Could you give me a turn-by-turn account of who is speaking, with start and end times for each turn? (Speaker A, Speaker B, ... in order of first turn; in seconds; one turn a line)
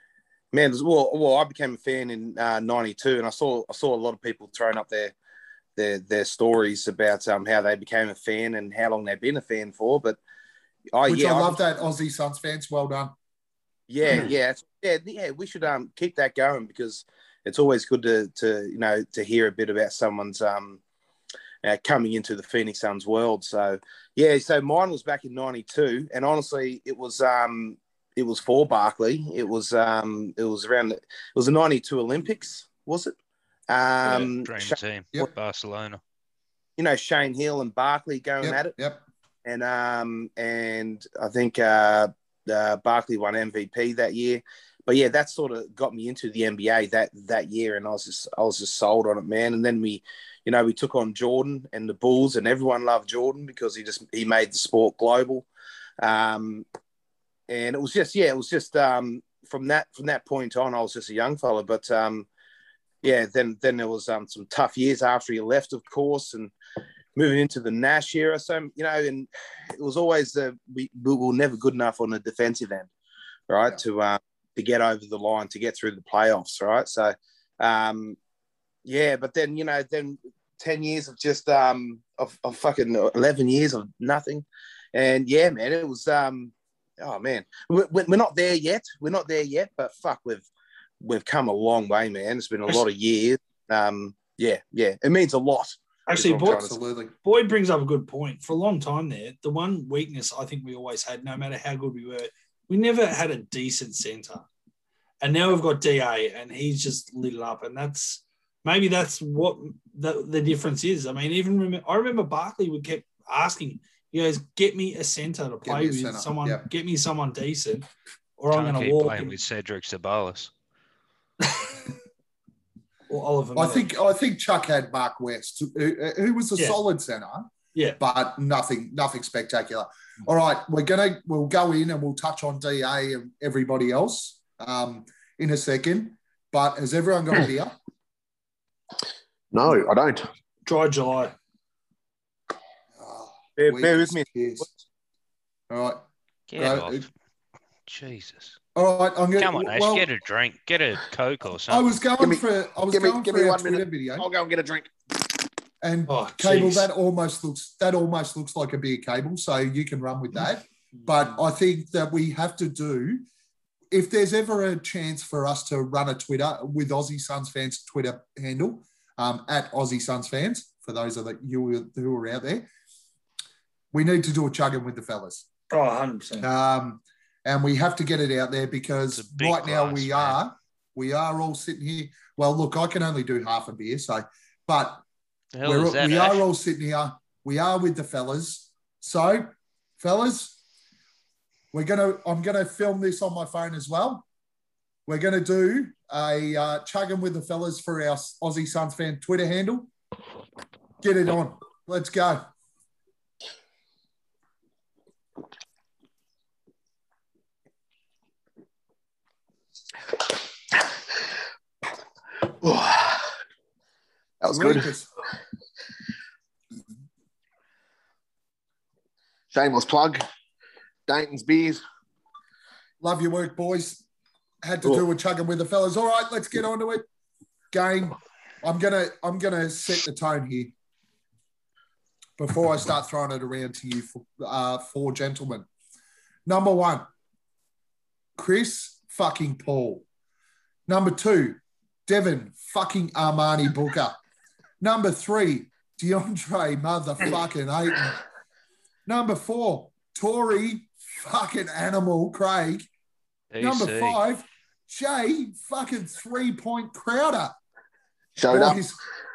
Speaker A: 0.5-5.2
Speaker A: 5.8-10.2
Speaker A: 10.9-11.6
Speaker B: 11.1-13.1
Speaker A: 13.9-20.8
Speaker A: 21.6-33.1
Speaker A: 33.7-34.8
Speaker C: 34.0-36.0
Speaker A: 36.8-38.7
Speaker B: 38.4-39.0
Speaker A: 39.5-55.5
Speaker A: 56.0-56.6
Speaker A: 57.5-62.3
Speaker A: 63.0-66.5
Speaker A: 67.2-72.9
Speaker A: 73.5-78.2
Speaker A: 78.8-90.5
Speaker A: 91.0-96.7
Speaker D: 96.1-96.7
Speaker B: 96.4-97.1
Speaker D: 97.2-104.5
Speaker D: 105.2-117.9
Speaker B: 115.6-116.7
Speaker D: 118.4-119.3
Speaker C: 118.5-120.5
Speaker D: 121.4-121.8
Speaker D: 123.1-123.9
Speaker B: 123.5-137.8
Speaker E: 139.5-140.3
Speaker D: 140.7-141.3
Speaker B: 143.0-144.8
Speaker A: 143.6-144.3
Speaker B: 145.7-146.0
Speaker C: 146.5-147.1
Speaker B: 146.6-147.0
Speaker C: 147.9-148.6
Speaker B: 148.8-150.1
Speaker C: 149.4-151.9
Speaker B: 151.7-154.3
Speaker E: 152.2-154.9
Speaker B: 155.8-163.2
Speaker D: 156.1-156.9
Speaker B: 163.9-172.7
Speaker B: 173.9-175.5
Speaker D: 175.7-176.5
Speaker B: 176.4-185.0
Speaker C: 179.1-180.4
Speaker C: 185.6-186.4
Speaker B: 185.6-190.6
Speaker B: 191.7-194.3
Speaker B: 195.1-199.9
Speaker B: 201.0-202.5
Speaker E: 212.6-213.3
Speaker E: 214.4-214.9
Speaker B: 214.5-215.1
Speaker E: 219.5-220.2
Speaker E: 221.1-221.8
Speaker B: 223.0-224.0
Speaker B: 224.6-227.1
Speaker B: 227.7-230.7
Speaker B: 232.4-235.7
Speaker B: 236.5-237.1
Speaker B: 238.4-240.1
Speaker B: 240.9-244.2
Speaker B: 244.8-248.2
Speaker B: 249.1-252.9
Speaker C: 253.5-254.2
Speaker B: 253.6-257.6
Speaker E: 258.4-258.8
Speaker B: 258.5-259.0